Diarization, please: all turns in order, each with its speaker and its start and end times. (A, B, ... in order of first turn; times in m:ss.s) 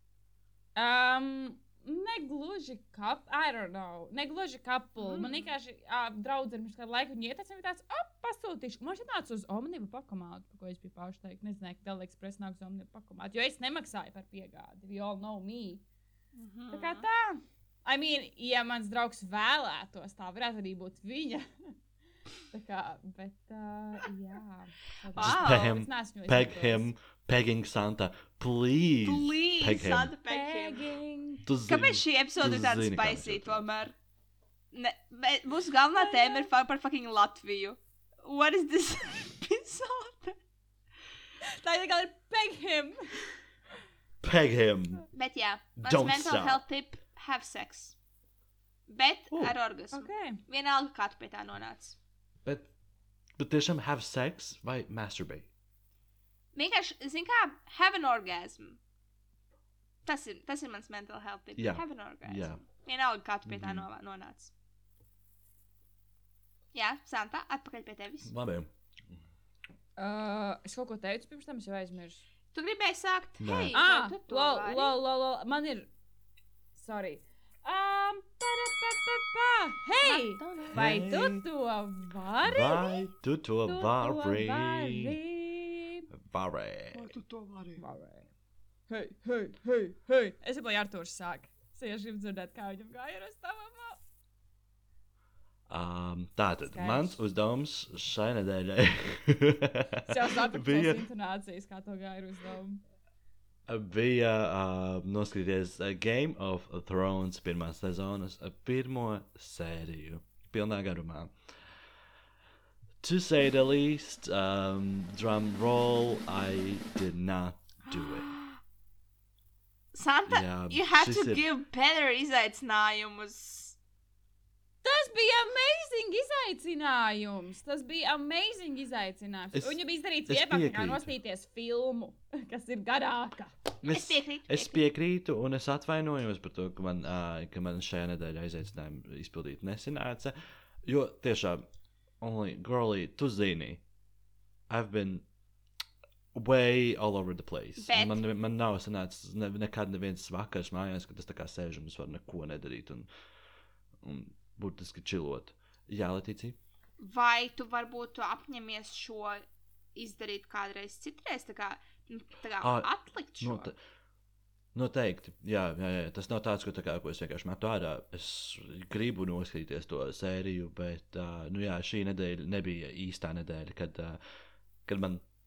0:00.8-0:15.8 A
0:05.0-0:05.5 B
0:16.3-0:17.0 B
0:16.7-0:21.7 A
0:22.5-0:26.9 A
0:25.1-0:25.8 B
0:25.2-0:30.1 C
0:29.0-0:30.9 B
0:30.3-0:31.4 A
0:31.4-0:33.6 C
0:31.7-0:33.9 B
0:34.7-0:40.4 B
0:36.0-0:36.5 A
0:41.5-0:43.2 A
0:44.2-0:45.1 C
0:45.1-0:47.9 B
0:45.8-0:46.6 C
0:48.9-0:52.0 B
0:49.3-0:49.6 C
0:49.9-0:50.4 A
0:52.4-0:52.7 C
0:53.4-0:55.5 C
0:56.5-0:58.8 B
1:00.0-1:04.5 B
1:01.6-1:02.6 C
1:03.4-1:03.8 C
1:06.7-1:08.3 B
1:08.2-1:09.2 C
1:10.0-1:12.2 A
1:12.5-1:14.9 B
1:13.4-1:13.8 C
1:13.7-1:15.9 A
1:16.8-1:23.1 A
1:20.0-1:21.0 B
1:20.7-1:21.4 C
1:22.4-1:25.2 C
1:23.6-1:26.1 A
1:26.1-1:27.5 C
1:27.8-1:28.3 A
1:28.9-1:34.0 A
1:35.7-1:41.0 C
1:36.7-1:37.2 A
1:40.1-1:42.8 A
1:43.7-1:51.7 C
1:53.0-1:58.3 C
1:57.9-1:58.6 B
1:59.9-2:03.8 B
2:00.3-2:01.4 C
2:04.8-2:13.6 A
2:09.5-2:11.1 C
2:13.8-2:14.8 B
2:13.8-2:21.7 C
2:22.2-2:23.8 C
2:24.7-2:25.2 C
2:26.3-2:33.1 C
2:27.8-2:28.2 B
2:34.0-2:36.6 C
2:37.0-2:39.4 B
2:39.9-2:43.7 B
2:42.6-2:43.8 C
2:44.7-2:54.2 C
2:54.8-2:55.2 C